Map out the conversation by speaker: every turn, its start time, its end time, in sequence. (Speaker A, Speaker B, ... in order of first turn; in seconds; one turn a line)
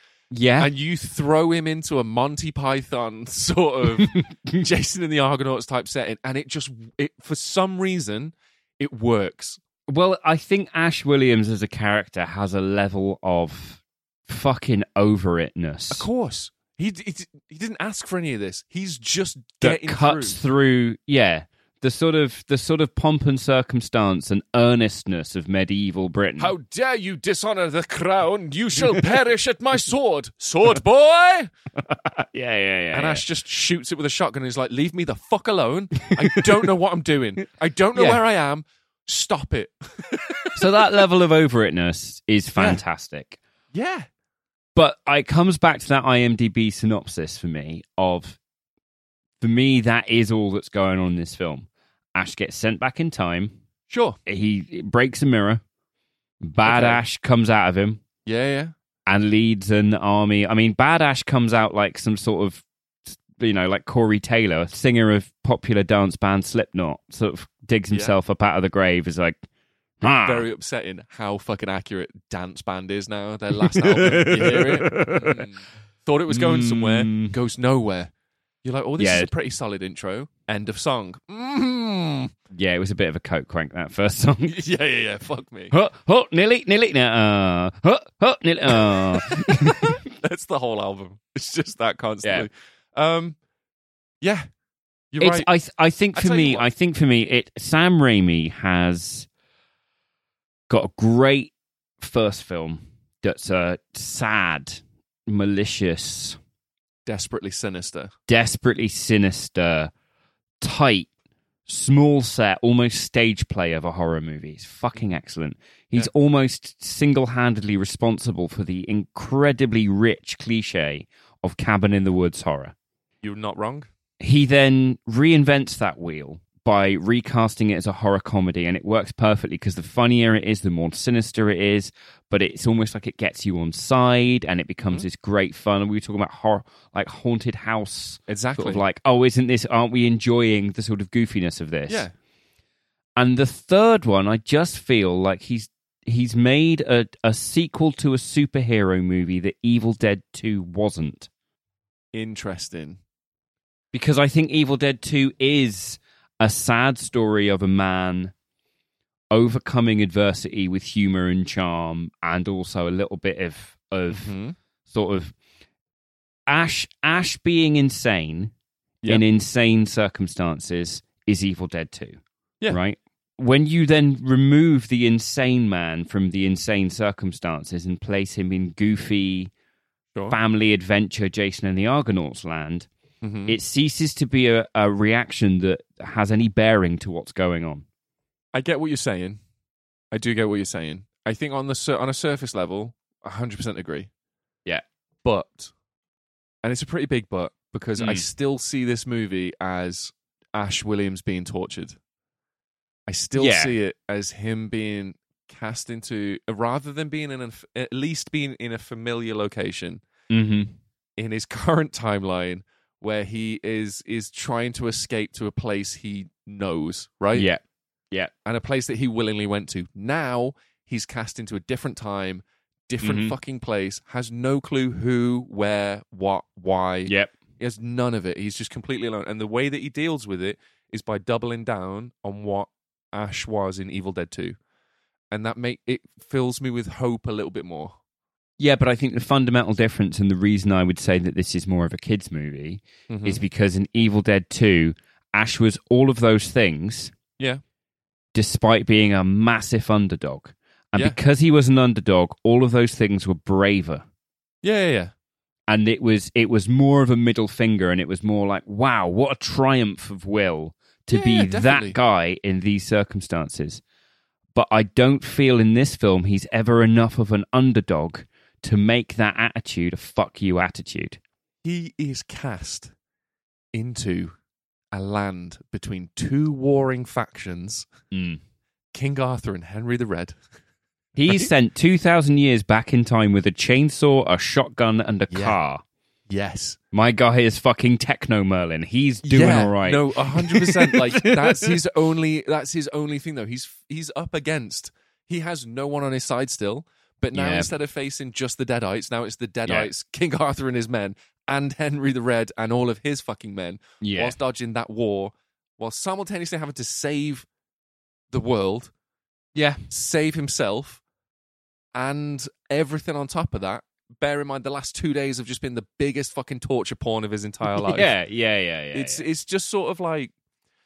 Speaker A: 0.3-0.7
Speaker B: 0.6-9.6
Speaker A: 4.0-4.5
Speaker A: 9.9-16.1
Speaker B: 15.9-20.4
Speaker A: 19.6-26.5
Speaker B: 26.4-31.5
Speaker A: 31.8-33.2
Speaker B: 32.9-40.6
Speaker A: 36.0-36.5
Speaker A: 38.0-38.2
Speaker A: 40.6-43.4
Speaker B: 42.6-42.8
Speaker B: 43.7-44.1
Speaker A: 44.8-48.4
Speaker A: 49.4-53.6
Speaker B: 53.9-54.2
Speaker A: 54.3-55.6
Speaker A: 56.4-58.0
Speaker B: 56.6-57.0
Speaker B: 58.2-58.7
Speaker A: 59.1-69.4
Speaker A: 70.0-70.5
Speaker B: 70.2-78.1
Speaker A: 73.6-75.5
Speaker A: 76.3-77.3
Speaker B: 78.6-82.3
Speaker A: 79.0-79.3
Speaker A: 82.5-84.6
Speaker B: 84.5-85.7
Speaker A: 85.7-90.0
Speaker B: 88.9-89.2
Speaker B: 90.1-93.4
Speaker B: 94.2-94.5
Speaker B: 95.1-95.5
Speaker A: 95.2-99.3
Speaker B: 96.1-96.7
Speaker A: 100.7-106.4
Speaker B: 107.1-108.1
Speaker A: 108.3-109.9
Speaker A: 110.6-111.1
Speaker A: 111.7-122.8
Speaker B: 123.2-123.9
Speaker A: 124.2-142.1
Speaker B: 138.3-138.8
Speaker B: 141.9-142.1
Speaker A: 143.2-151.3
Speaker B: 152.1-153.0
Speaker A: 153.9-158.3
Speaker A: 159.3-164.3
Speaker B: 164.1-164.6
Speaker A: 164.9-165.3
Speaker A: 166.5-168.5
Speaker A: 169.1-179.5
Speaker A: 180.3-182.9
Speaker B: 183.2-183.6
Speaker A: 183.5-187.8
Speaker B: 188.5-189.4
Speaker B: 190.1-194.1
Speaker B: 195.2-195.7
Speaker B: 196.6-202.0
Speaker A: 198.0-198.3
Speaker B: 203.1-210.0
Speaker A: 203.4-203.8
Speaker A: 210.3-210.8
Speaker B: 211.2-217.5
Speaker A: 217.3-218.3
Speaker B: 218.4-234.6
Speaker A: 223.0-223.4
Speaker A: 227.1-227.3
Speaker B: 235.3-238.0
Speaker A: 238.6-247.1
Speaker B: 243.1-243.4
Speaker A: 248.3-254.0
Speaker B: 254.6-255.1
Speaker A: 255.7-263.8
Speaker B: 261.1-262.0
Speaker A: 264.5-271.2
Speaker B: 271.6-272.9
Speaker B: 273.7-274.4
Speaker B: 274.9-277.9
Speaker A: 278.1-278.4
Speaker B: 278.9-280.4
Speaker A: 281.1-285.8
Speaker B: 285.3-285.6
Speaker B: 286.3-286.8
Speaker A: 286.9-291.8
Speaker B: 289.2-307.5
Speaker A: 297.3-297.7
Speaker A: 304.0-304.4
Speaker B: 308.3-308.9
Speaker A: 309.6-309.8
Speaker B: 309.9-311.0
Speaker B: 311.9-318.1
Speaker A: 317.6-319.3
Speaker B: 318.9-320.3